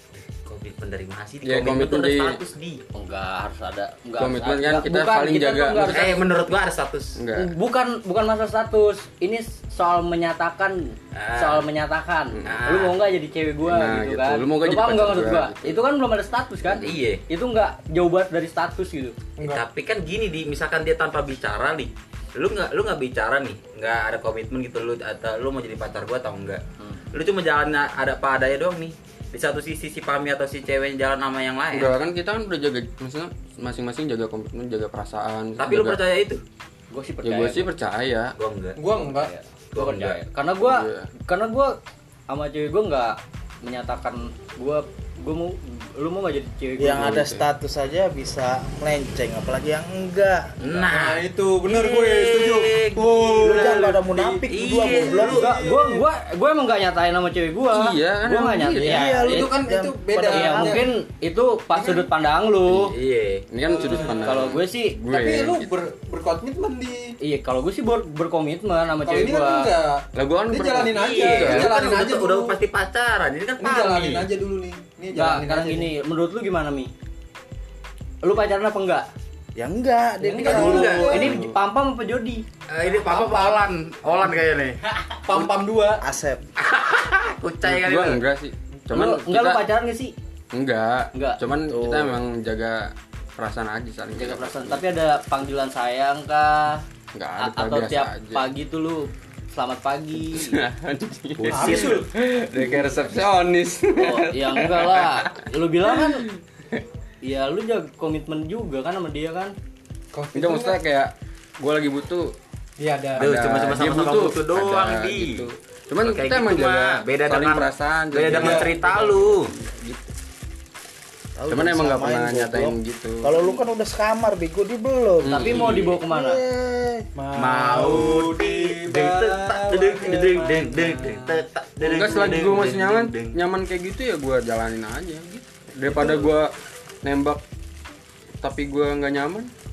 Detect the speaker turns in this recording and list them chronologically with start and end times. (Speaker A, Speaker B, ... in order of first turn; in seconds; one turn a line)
Speaker A: 0.5-2.8
Speaker B: 1.4-2.4
Speaker C: 2.9-6.3
Speaker B: 4.2-6.2
Speaker A: 5.8-7.2
Speaker B: 7.2-7.5
Speaker C: 7.3-19.2
Speaker A: 11.1-11.7
Speaker B: 12.3-12.7
Speaker A: 12.4-13.0
Speaker B: 13.7-15.8
Speaker A: 16.7-17.2
Speaker D: 19.4-19.6
Speaker A: 19.4-26.6
Speaker A: 27.1-32.0
Speaker B: 31.7-36.0
Speaker A: 35.6-36.4
Speaker C: 36.9-37.7
Speaker B: 37.2-38.4
Speaker A: 38.4-38.8
Speaker D: 38.8-39.3
Speaker C: 38.9-41.8
Speaker A: 39.7-40.2
Speaker B: 40.6-41.1
Speaker C: 42.3-47.1
Speaker E: 46.8-50.6
Speaker B: 46.9-47.4
Speaker A: 50.6-55.5
Speaker D: 50.8-56.0
Speaker E: 53.1-55.5
Speaker C: 55.3-59.5
Speaker B: 57.7-59.0
Speaker E: 58.8-60.9
Speaker D: 58.9-60.9
Speaker C: 60.3-62.9
Speaker D: 61.7-62.1
Speaker A: 62.7-63.5
Speaker B: 63.5-65.7
Speaker D: 63.7-64.4
Speaker C: 63.8-65.1
Speaker D: 65.1-67.2
Speaker C: 67.2-69.7
Speaker D: 69.0-72.6
Speaker B: 70.2-71.8
Speaker A: 71.0-74.3
Speaker D: 73.6-75.9
Speaker C: 75.1-76.9
Speaker C: 78.2-79.1
Speaker E: 79.6-81.4
Speaker C: 80.2-82.5
Speaker D: 80.3-81.4
Speaker A: 80.5-81.1
Speaker B: 81.1-81.6
Speaker A: 82.7-84.8
Speaker D: 82.8-83.6
Speaker D: 85.2-86.0
Speaker E: 86.0-86.5
Speaker A: 86.6-88.2
Speaker B: 87.6-89.7
Speaker C: 88.9-90.1
Speaker B: 90.5-94.8
Speaker C: 91.1-91.4
Speaker E: 91.7-92.2
Speaker C: 94.2-96.8
Speaker B: 97.1-98.5
Speaker C: 97.4-100.6
Speaker B: 100.3-106.8
Speaker A: 101.4-102.0
Speaker D: 101.5-102.1
Speaker C: 104.0-106.3
Speaker C: 107.2-109.5
Speaker D: 110.1-110.8
Speaker B: 110.3-112.3
Speaker D: 112.8-113.3
Speaker A: 113.2-115.5
Speaker B: 113.2-120.1
Speaker A: 116.0-119.5
Speaker D: 118.3-118.8
Speaker E: 121.4-127.1
Speaker B: 121.5-123.4
Speaker B: 125.2-126.0
Speaker C: 125.3-126.4
Speaker D: 127.2-131.4
Speaker A: 127.4-133.4
Speaker B: 131.8-137.4
Speaker D: 135.9-136.3
Speaker B: 138.4-139.5